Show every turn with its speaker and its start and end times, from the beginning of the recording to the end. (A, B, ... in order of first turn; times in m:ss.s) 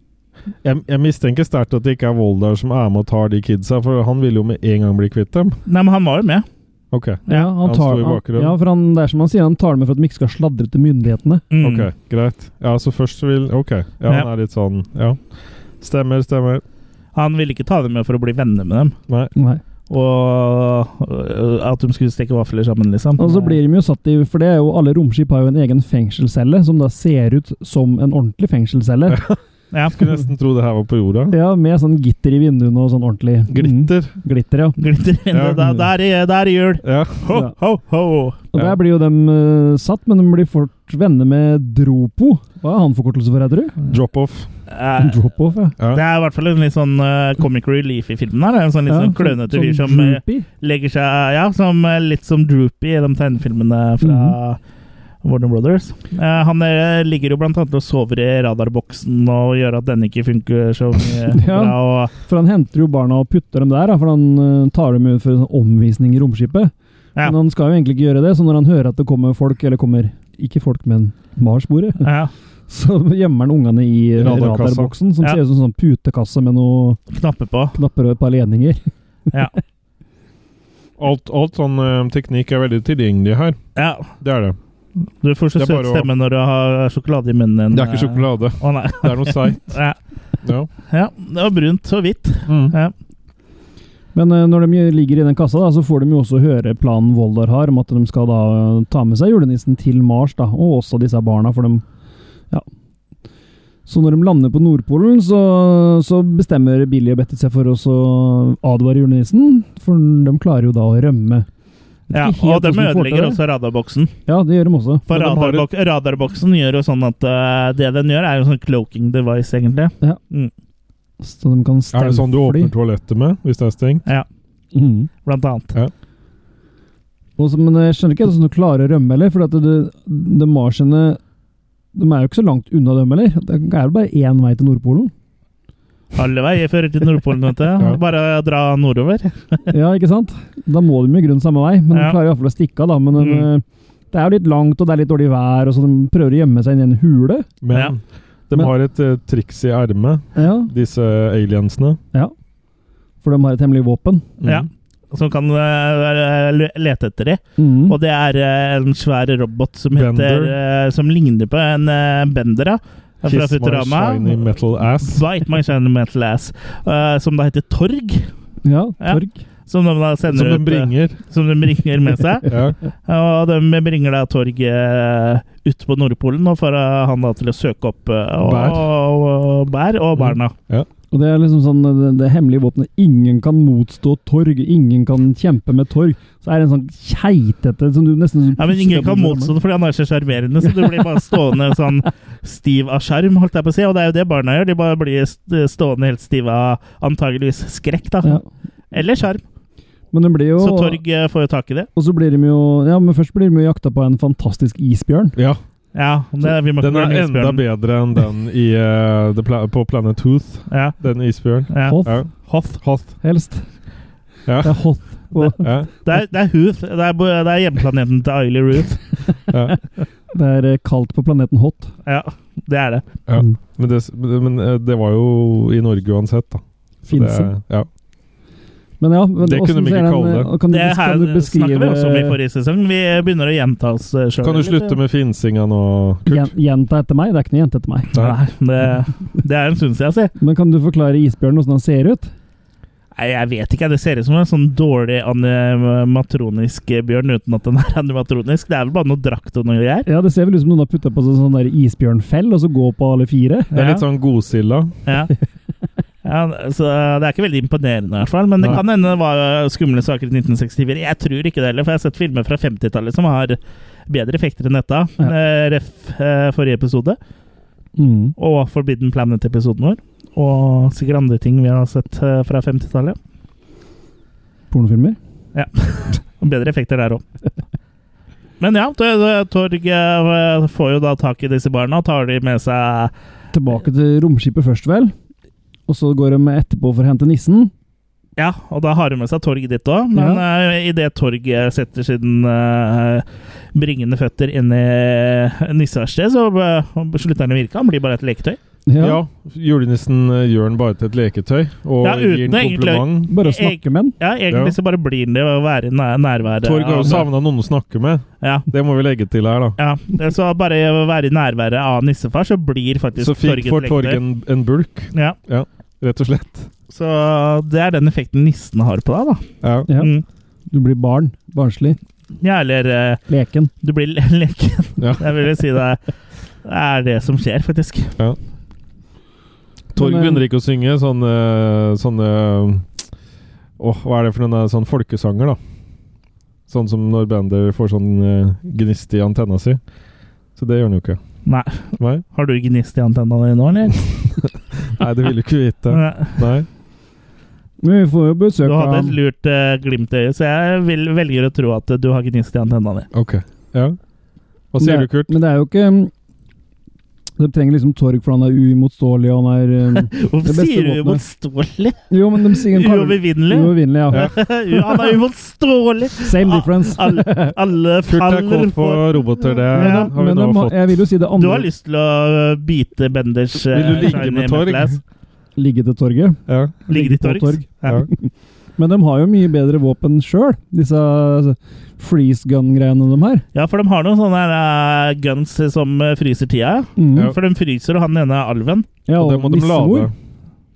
0:00.6-0:05.6 A
0:05.7-0:06.4 B
0:06.9-0:08.6 A
0:07.3-0:11.4 C
0:11.5-0:11.9 B
0:11.6-0:16.6 A
0:17.1-0:19.0 B
0:19.4-0:19.6 C
0:19.9-0:23.6 B
0:23.2-0:29.2 C
0:29.1-0:29.4 A
0:29.7-0:30.0 B
0:29.9-0:31.4 A
0:31.3-0:34.8 C
0:33.5-0:34.1 A
0:34.8-0:38.4 B
0:35.3-0:35.6 A
0:36.8-0:37.2 A
0:38.5-0:43.8 C
0:38.5-0:38.8 A
0:43.8-0:44.5 A
0:44.7-0:45.2 B
0:45.0-0:45.7 C
0:45.9-0:54.6 B
0:48.9-0:50.4 C
0:54.0-0:54.4 C
0:55.2-1:02.1 B
1:01.3-1:12.1 C
1:12.0-1:12.3 B
1:12.7-1:17.0 C
1:14.2-1:14.9 A
1:17.1-1:17.8 B
1:17.7-1:18.8 C
1:21.0-1:24.6 A
1:23.8-1:24.1 B
1:25.2-1:30.0 B
1:25.6-1:26.1 A
1:27.7-1:29.7 A
1:30.4-1:30.7 A
1:30.9-1:32.9 B
1:32.5-1:32.7 A
1:34.1-1:41.8 C
1:43.8-1:51.5 C
1:52.1-1:53.4 C
1:52.1-1:54.1 B
1:54.2-1:55.1 C
1:55.1-2:00.5 B
1:55.1-1:55.6 A
2:01.2-2:02.7 C
2:01.9-2:04.0 A
2:04.7-2:05.1 C
2:05.2-2:05.7 B
2:07.4-2:11.2 C
2:11.9-2:15.1 C
2:16.1-2:19.7 B
2:19.7-2:27.5 C
2:21.9-2:22.2 B
2:23.2-2:23.5 B
2:27.6-2:32.0 A
2:30.4-2:30.7 C
2:33.2-2:34.3 C
2:34.4-2:34.6 A
2:34.4-2:44.4 B
2:37.6-2:38.0 C
2:39.9-2:40.5 A
2:43.2-2:45.2 A
2:45.0-2:48.3 B
2:48.6-2:49.4 C
2:49.0-2:52.5 B
2:50.3-2:51.2 A
2:52.5-2:52.8 A
2:53.0-3:00.5 B
2:58.4-2:58.9 A
3:00.2-3:00.9 A
3:01.1-3:09.5 C
3:08.6-3:18.4 B
3:18.9-3:19.4 B
3:20.1-3:21.0 C
3:20.6-3:21.9 B
3:21.9-3:25.4 C
3:25.3-3:25.6 A
3:25.9-3:27.6 B
3:26.8-3:33.2 A
3:30.7-3:30.9 B
3:31.7-3:32.8 B
3:31.9-3:32.1 C
3:33.2-3:33.6 C
3:34.4-3:34.8 A
3:34.6-3:35.6 C
3:35.3-3:39.1 B
3:35.6-3:35.9 A
3:39.5-3:39.8 A
3:40.3-3:41.9 C
3:42.0-3:43.0 B
3:43.3-3:47.9 A
3:47.0-3:47.5 C
3:49.0-3:52.4 C
3:49.4-3:50.5 A
3:50.7-3:55.0 B
3:54.4-3:56.5 A
3:56.3-3:58.1 C
3:58.1-4:00.3 B
4:00.4-4:02.3 C
4:03.2-4:10.1 B
4:10.0-4:13.7 C
4:13.7-4:14.0 B
4:13.7-4:14.9 A
4:15.0-4:15.3 B
4:16.2-4:27.2 B
4:28.0-4:28.3 C
4:28.4-4:33.2 B
4:34.7-4:35.2 C
4:35.5-4:37.2 B
4:38.6-4:43.1 B
4:43.5-4:45.1 C
4:45.9-4:47.7 C
4:48.4-4:58.6 B
4:50.1-4:50.4 C
4:58.9-4:59.2 C
4:59.0-5:03.3 A
5:02.0-5:07.3 B
5:03.3-5:04.1 C
5:04.5-5:04.8 A
5:06.6-5:09.8 A
5:08.4-5:08.6 B
5:09.8-5:14.2 B
5:13.2-5:16.7 A
5:16.9-5:20.2 B
5:19.6-5:19.9 A
5:20.7-5:22.0 C
5:22.4-5:23.2 B
5:23.3-5:23.7 C
5:23.8-5:26.0 B
5:25.0-5:25.3 A
5:26.6-5:28.1 B
5:29.9-5:32.9 A
5:30.0-5:30.4 C
5:33.8-5:35.6 A
5:36.7-5:39.8 A
5:40.5-5:41.2 A
5:41.4-5:44.1 B
5:42.0-5:42.2 A
5:44.4-5:46.7 A
5:45.9-5:46.5 B
5:47.8-5:49.2 C
5:48.6-5:53.1 B
5:53.1-5:54.0 A
5:54.7-5:55.4 A
5:54.8-5:56.1 C
5:57.4-6:01.2 C
5:59.9-6:09.2 B
6:02.1-6:05.1 C
6:04.1-6:04.4 A
6:06.2-6:07.5 C
6:08.1-6:11.0 A
6:09.7-6:10.1 B
6:09.7-6:11.7 C
6:11.4-6:15.0 B
6:13.7-6:15.0 A
6:15.6-6:23.4 C
6:16.5-6:16.7 A
6:16.9-6:18.0 B
6:23.5-6:28.9 B
6:27.0-6:27.3 C
6:29.0-6:30.1 C
6:29.1-6:30.1 A